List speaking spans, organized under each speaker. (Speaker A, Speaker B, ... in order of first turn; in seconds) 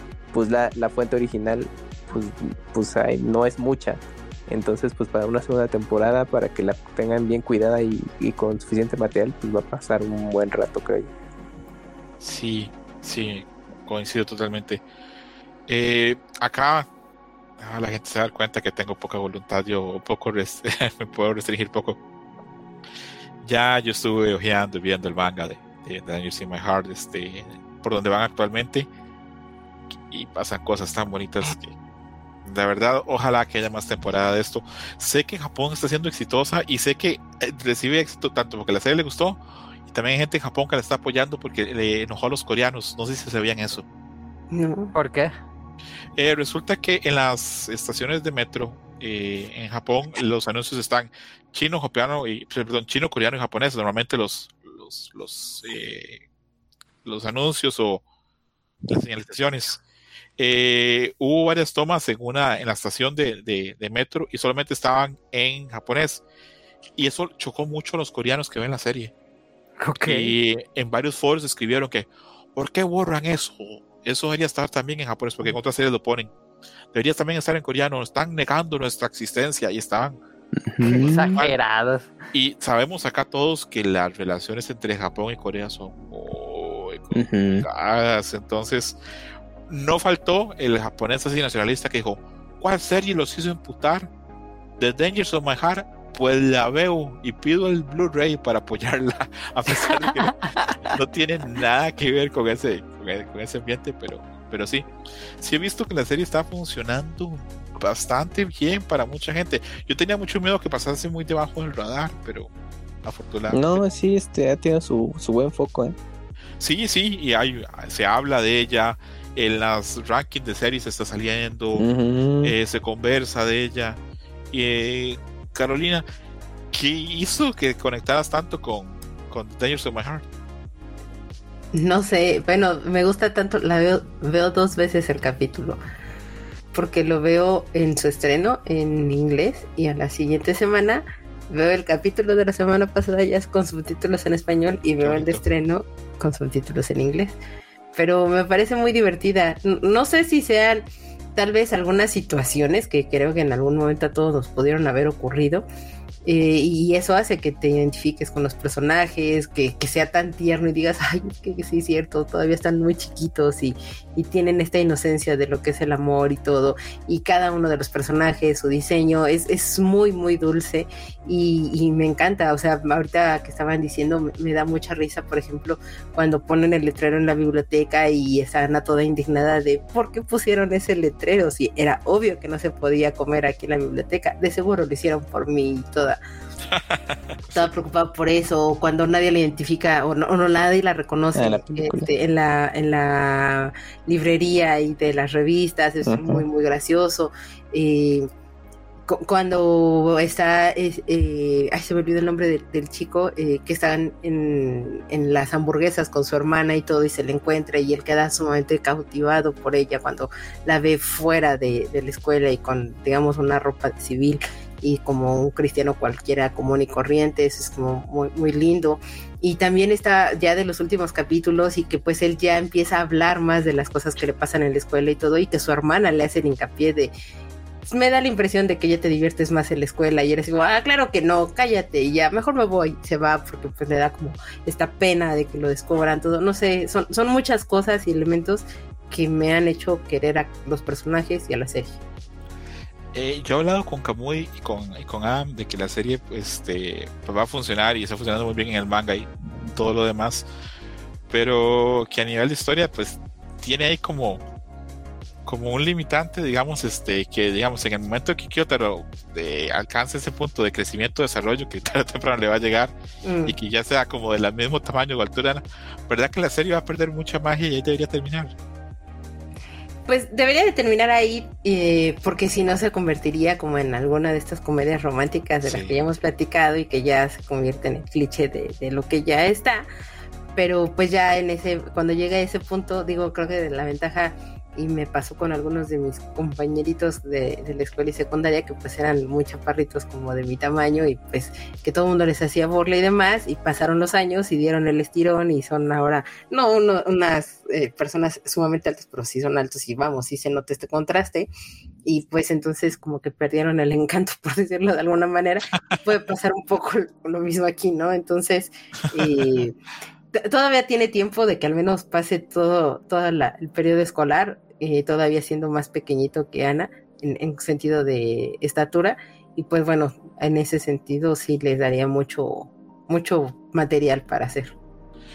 Speaker A: 0.3-11.1, 80.6-81.4, 87.1-87.7, 113.5-116.0, 121.8-122.5, 191.3-192.1, 196.0-196.4
Speaker B: 12.2-14.8, 15.7-16.9, 17.6-22.0, 23.4-28.9, 30.1-31.7, 32.4-43.9, 46.1-56.2, 57.0-58.0, 58.9-59.8, 60.4-66.2, 67.0-69.1, 70.0-76.3, 76.9-80.2, 80.8-81.5, 82.3-89.0, 89.7-94.1, 94.8-104.9, 105.4-112.5, 113.0-113.8, 116.6-121.9, 122.4-124.0, 124.5-126.0, 126.7-130.2, 145.0-145.4, 186.7-187.7, 243.1-250.5, 251.3-254.4, 255.4-262.9, 263.4-268.5, 275.6-275.9
Speaker C: 44.5-44.9, 131.7-135.8, 136.7-147.4, 147.9-150.8, 151.3-155.7, 156.2-186.2, 187.5-198.3, 199.1-227.1, 227.9-242.0, 263.2-263.5, 270.1-279.9, 280.6-301.5, 302.0-309.8, 310.3-324.7
Speaker D: 44.9-45.3, 69.8-70.3, 80.8-82.1, 99.7-100.9